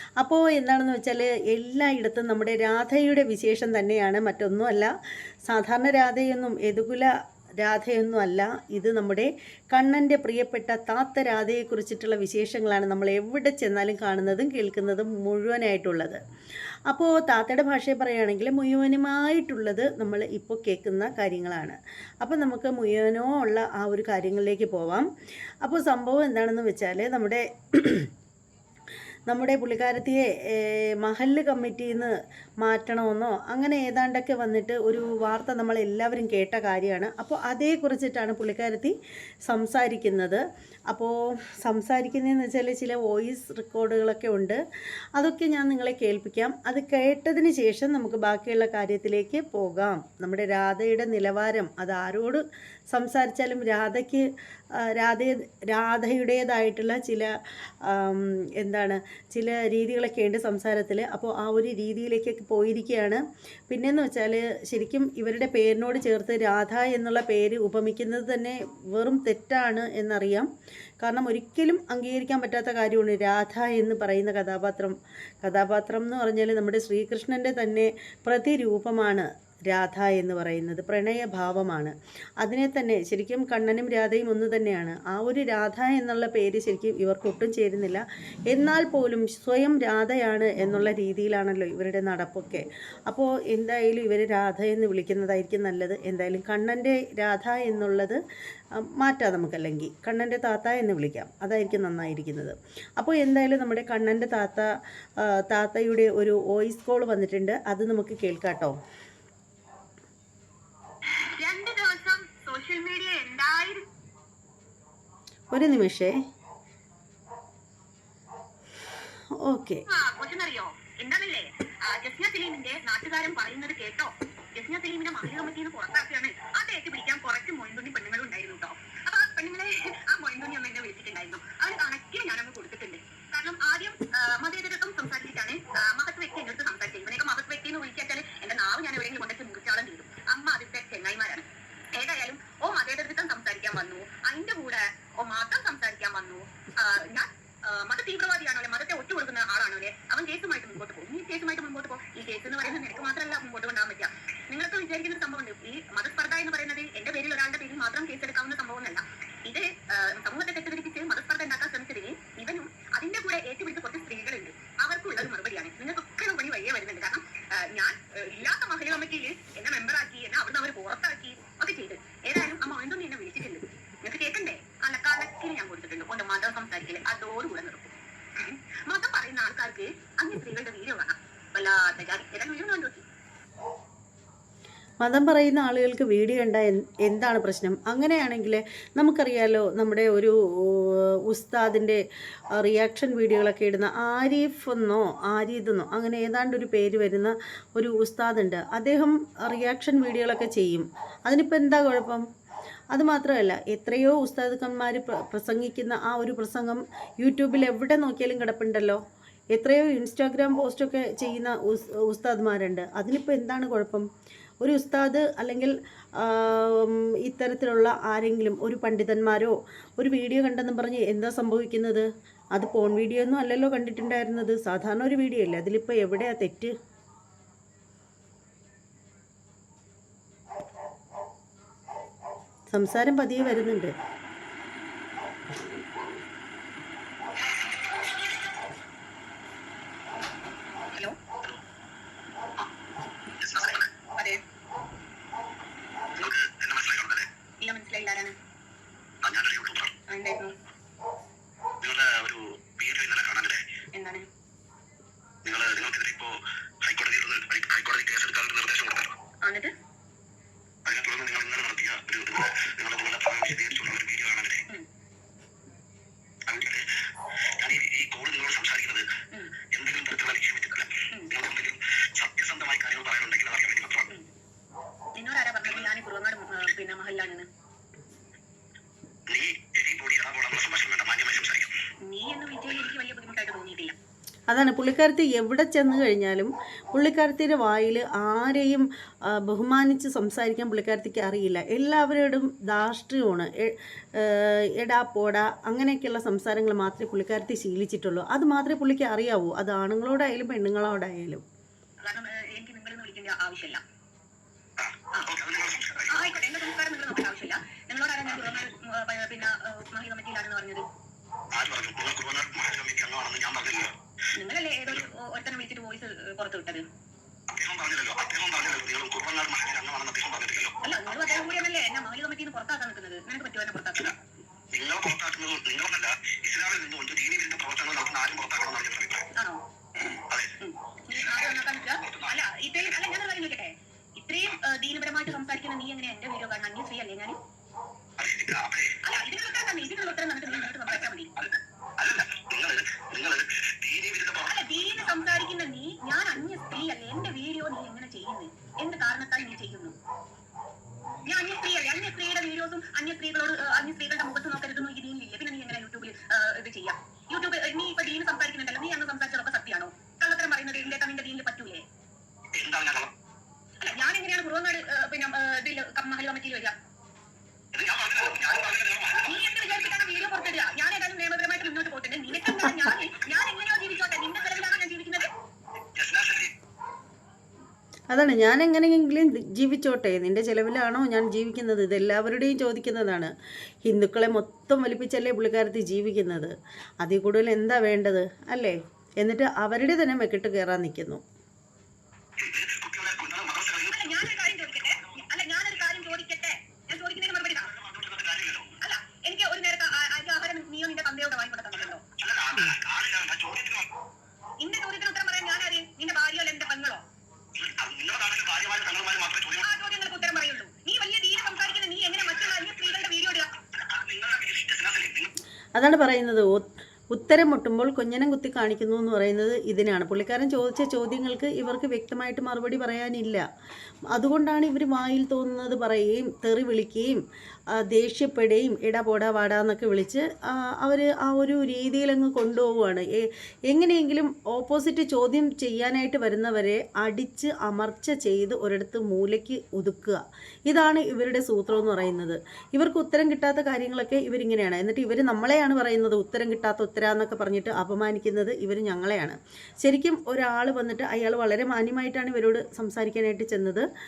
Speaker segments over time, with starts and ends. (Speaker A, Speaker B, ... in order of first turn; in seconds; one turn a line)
Speaker A: 0.2-4.9
Speaker A: 5.5-16.2
Speaker A: 16.9-25.1
Speaker A: 25.6-28.1
Speaker A: 29.3-38.9
Speaker A: 39.5-44.6
Speaker A: 45.2-54.3
Speaker A: 54.8-57.3
Speaker A: 57.8-70.5
Speaker A: 71.0-98.2
Speaker A: 98.8-104.7
Speaker A: 105.2-108.8
Speaker B: 111.4-113.8
Speaker A: 115.5-116.2
Speaker A: 119.4-119.8
Speaker B: 119.9-183.0
Speaker A: 185.0-192.0
Speaker A: 192.6-202.2
Speaker A: 202.9-209.0
Speaker A: 209.5-214.1
Speaker A: 214.6-226.7
Speaker A: 232.7-233.9
Speaker C: 243.4-243.9
Speaker B: 243.5-244.4
Speaker C: 246.2-247.3
Speaker B: 247.6-248.3
Speaker C: 249.2-249.9
Speaker B: 250.1-250.5
Speaker C: 251.8-253.6
Speaker B: 253.9-254.3
Speaker C: 255.4-259.1
Speaker B: 259.4-259.7
Speaker C: 260.8-264.6
Speaker C: 266.5-266.9
Speaker C: 267.6-269.1
Speaker C: 269.7-274.1
Speaker B: 275.1-277.5
Speaker C: 279.3-281.7
Speaker B: 282.0-283.9
Speaker A: 284.5-301.4
Speaker B: 302.0-303.8
Speaker C: 304.8-306.4
Speaker B: 306.1-310.9
Speaker C: 311.5-313.9
Speaker B: 314.3-316.8
Speaker C: 317.5-320.8
Speaker B: 320.8-324.2
Speaker C: 324.7-329.3
Speaker B: 329.4-329.6
Speaker C: 330.3-330.5
Speaker B: 330.6-337.4
Speaker C: 332.0-332.3
Speaker C: 338.2-339.0
Speaker B: 339.0-341.3
Speaker C: 341.4-344.6
Speaker B: 344.4-349.9
Speaker B: 351.2-361.8
Speaker C: 362.5-363.1
Speaker B: 363.8-366.8
Speaker C: 367.7-369.4
Speaker B: 369.2-375.3
Speaker C: 375.9-376.5
Speaker A: 378.1-383.3
Speaker A: 383.8-391.2
Speaker C: 392.4-394.0
Speaker B: 393.9-397.7
Speaker C: 397.7-398.8
Speaker B: 398.8-402.0
Speaker C: 402.1-403.9
Speaker B: 404.6-407.0
Speaker C: 407.5-409.7
Speaker B: 409.6-413.5
Speaker C: 413.7-415.3
Speaker A: 415.8-423.4
Speaker A: 424.1-427.2
Speaker A: 427.8-453.9